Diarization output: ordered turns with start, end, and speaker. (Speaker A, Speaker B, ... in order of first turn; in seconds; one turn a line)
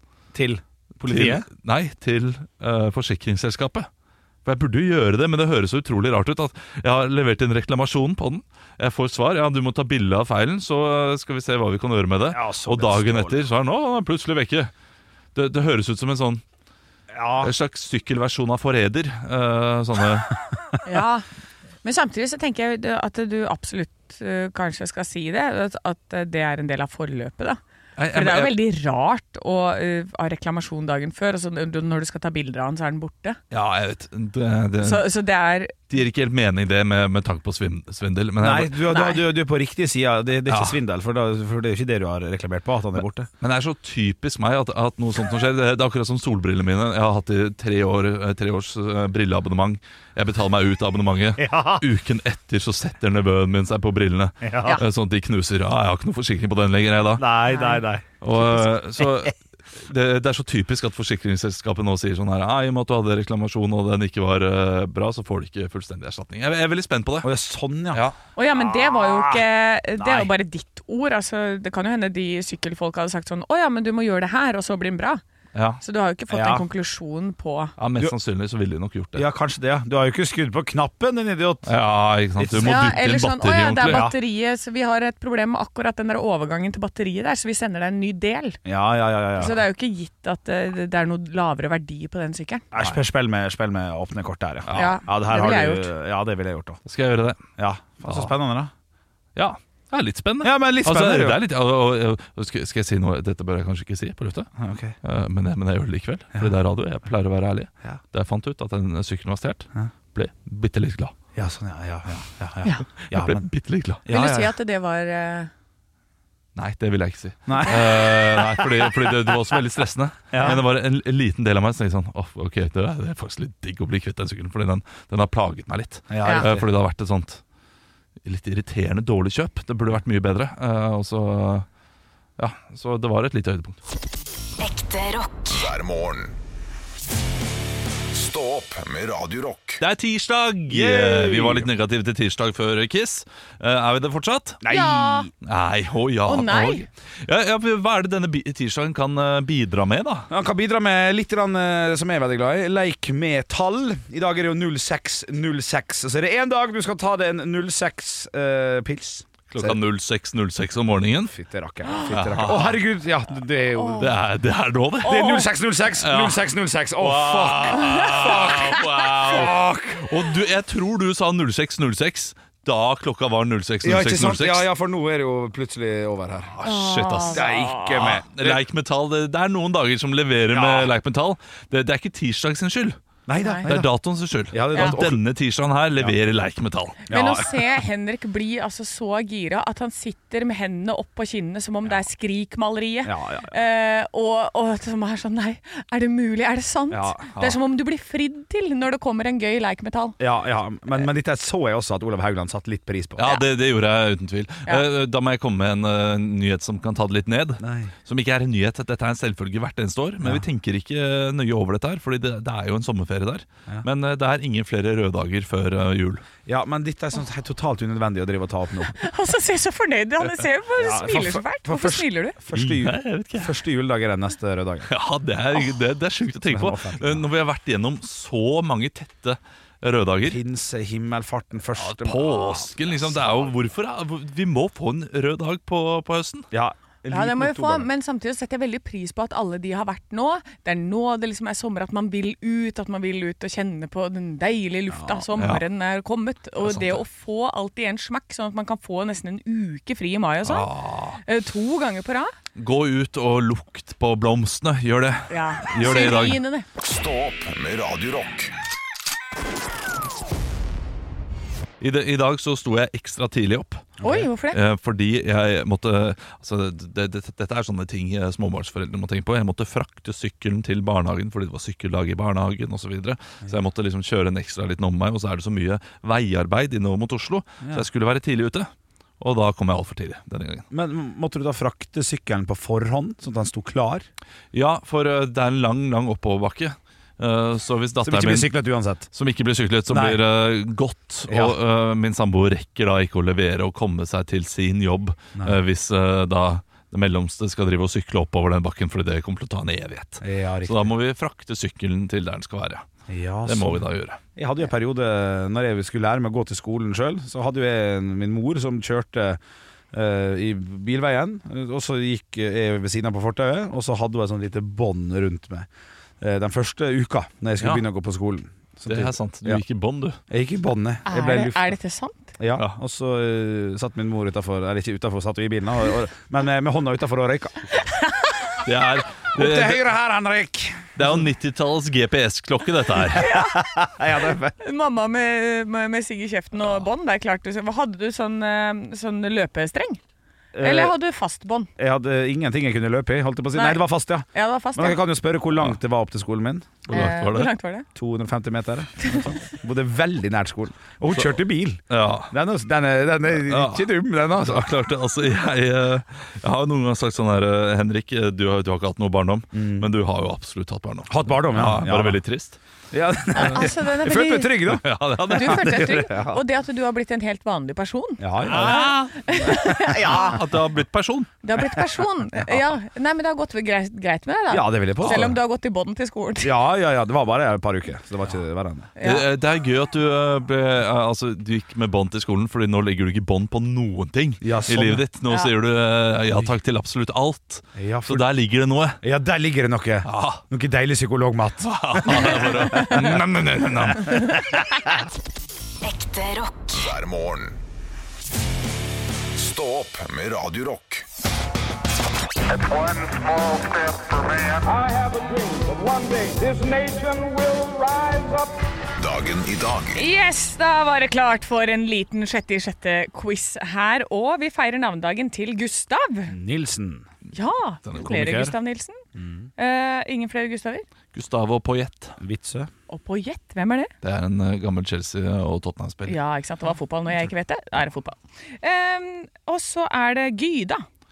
Speaker A: 0.3-1.5
Speaker B: 1.0-3.9
Speaker B: 4.4-14.7
Speaker A: 12.3-13.4
Speaker B: 15.3-16.4
Speaker A: 17.1-17.5
Speaker B: 17.4-20.4
Speaker C: 20.8-21.2
Speaker C: 21.8-27.6
Speaker B: 28.0-28.5
Speaker C: 28.1-33.4
Speaker B: 33.5-35.1
Speaker C: 34.8-35.8
Speaker B: 35.9-38.8
Speaker A: 38.4-43.3
Speaker C: 38.9-39.2
Speaker B: 40.5-40.8
Speaker B: 43.4-57.3
Speaker A: 51.4-51.9
Speaker A: 54.4-54.8
Speaker A: 57.2-59.3
Speaker C: 57.5-57.8
Speaker B: 58.2-67.3
Speaker A: 67.2-69.4
Speaker C: 68.3-75.2
Speaker A: 70.0-70.3
Speaker B: 75.5-75.8
Speaker C: 75.8-77.7
Speaker A: 76.3-76.7
Speaker B: 77.8-79.2
Speaker A: 79.1-81.7
Speaker B: 81.7-84.1
Speaker A: 82.3-82.8
Speaker C: 82.6-88.6
Speaker A: 83.8-84.2
Speaker A: 88.6-89.6
Speaker C: 89.4-92.6
Speaker A: 92.7-96.8
Speaker B: 94.7-95.0
Speaker C: 94.7-95.9
Speaker B: 96.8-97.4
Speaker A: 97.6-98.7
Speaker B: 99.3-104.5
Speaker A: 100.4-101.4
Speaker A: 104.6-105.0
Speaker B: 105.0-111.1
Speaker A: 111.3-113.5
Speaker B: 113.0-114.0
Speaker A: 114.0-114.5
Speaker C: 114.1-115.5
Speaker B: 116.5-127.4
Speaker A: 117.5-118.9
Speaker A: 120.3-120.6
Speaker A: 126.1-126.7
Speaker B: 128.2-131.7
Speaker B: 132.4-133.8
Speaker D: 134.6-136.4
Speaker D: 138.1-139.8
Speaker B: 139.8-144.6
Speaker A: 140.7-141.7
Speaker A: 144.6-145.3
Speaker C: 144.7-145.3
Speaker B: 145.4-150.3
Speaker C: 146.2-146.8
Speaker A: 150.3-159.8
Speaker B: 159.5-161.3
Speaker A: 161.3-164.1
Speaker B: 162.1-162.8
Speaker C: 163.8-164.1
Speaker B: 163.9-165.3
Speaker C: 165.0-165.4
Speaker A: 165.0-170.1
Speaker B: 166.0-166.4
Speaker B: 166.9-174.7
Speaker C: 167.8-168.8
Speaker A: 173.8-176.5
Speaker B: 176.5-183.0
Speaker C: 176.6-178.1
Speaker A: 177.3-178.6
Speaker A: 180.5-180.9
Speaker A: 183.3-183.9
Speaker C: 183.4-183.7
Speaker B: 183.6-187.0
Speaker A: 184.5-185.2
Speaker A: 187.1-187.6
Speaker C: 187.1-200.2
Speaker A: 193.0-193.5
Speaker A: 196.9-197.4
Speaker A: 200.2-203.3
Speaker B: 203.2-216.2
Speaker A: 207.6-207.9
Speaker A: 216.4-219.0
Speaker C: 218.9-222.4
Speaker A: 220.8-224.9
Speaker B: 222.5-223.5
Speaker B: 224.9-230.4
Speaker A: 226.4-227.3
Speaker A: 230.2-233.4
Speaker B: 231.7-236.5
Speaker A: 236.5-237.9
Speaker C: 237.1-252.3
Speaker A: 244.9-245.2
Speaker B: 245.4-245.6
Speaker B: 246.6-247.0
Speaker B: 250.4-251.2
Speaker B: 252.6-256.4
Speaker C: 255.3-256.6
Speaker D: 256.8-258.5
Speaker B: 261.8-263.9
Speaker A: 264.0-264.3
Speaker C: 264.0-264.6
Speaker B: 264.5-280.6
Speaker A: 280.7-284.1
Speaker B: 284.5-288.5
Speaker A: 288.0-289.1
Speaker B: 289.1-302.9
Speaker A: 289.9-290.2
Speaker A: 291.3-291.6
Speaker A: 300.2-300.9
Speaker A: 303.1-309.4
Speaker B: 303.4-304.2
Speaker A: 309.9-315.7
Speaker A: 316.2-319.6
Speaker B: 317.6-317.8
Speaker B: 318.9-320.2
Speaker A: 320.3-321.7
Speaker C: 321.1-322.3
Speaker A: 322.4-327.7
Speaker C: 327.8-328.3
Speaker B: 328.6-329.9
Speaker A: 329.3-331.1
Speaker B: 330.9-333.3
Speaker C: 333.1-333.7
Speaker A: 333.1-334.6
Speaker C: 334.6-340.0
Speaker A: 340.5-340.9
Speaker C: 340.6-341.7
Speaker A: 341.8-346.8
Speaker C: 343.5-345.0
Speaker B: 346.9-347.5
Speaker C: 346.9-347.9
Speaker A: 347.9-354.7
Speaker B: 351.9-352.3
Speaker B: 353.3-362.6
Speaker A: 359.5-359.9
Speaker A: 361.1-362.2
Speaker A: 362.9-366.4
Speaker C: 363.3-364.7
Speaker B: 364.7-365.9
Speaker C: 365.3-370.4
Speaker A: 368.2-370.3
Speaker B: 368.4-371.3
Speaker C: 371.4-376.5
Speaker A: 374.5-375.4
Speaker B: 375.0-375.3
Speaker A: 376.4-378.9
Speaker C: 379.0-379.2
Speaker B: 379.0-389.0
Speaker A: 384.4-385.0
Speaker A: 387.8-388.3
Speaker A: 389.0-393.2
Speaker B: 390.0-390.4
Speaker B: 391.6-394.6
Speaker A: 393.9-394.8
Speaker D: 395.8-397.6
Speaker D: 399.3-401.0
Speaker E: 402.5-408.5
Speaker D: 409.0-410.0
Speaker C: 409.9-416.3
Speaker A: 416.3-417.1
Speaker C: 417.3-419.0
Speaker B: 417.8-418.4
Speaker A: 418.0-418.5
Speaker A: 419.1-419.5
Speaker C: 419.6-420.8
Speaker B: 421.1-422.2
Speaker A: 422.2-422.7
Speaker C: 422.9-423.9
Speaker B: 424.0-426.2
Speaker C: 426.1-430.8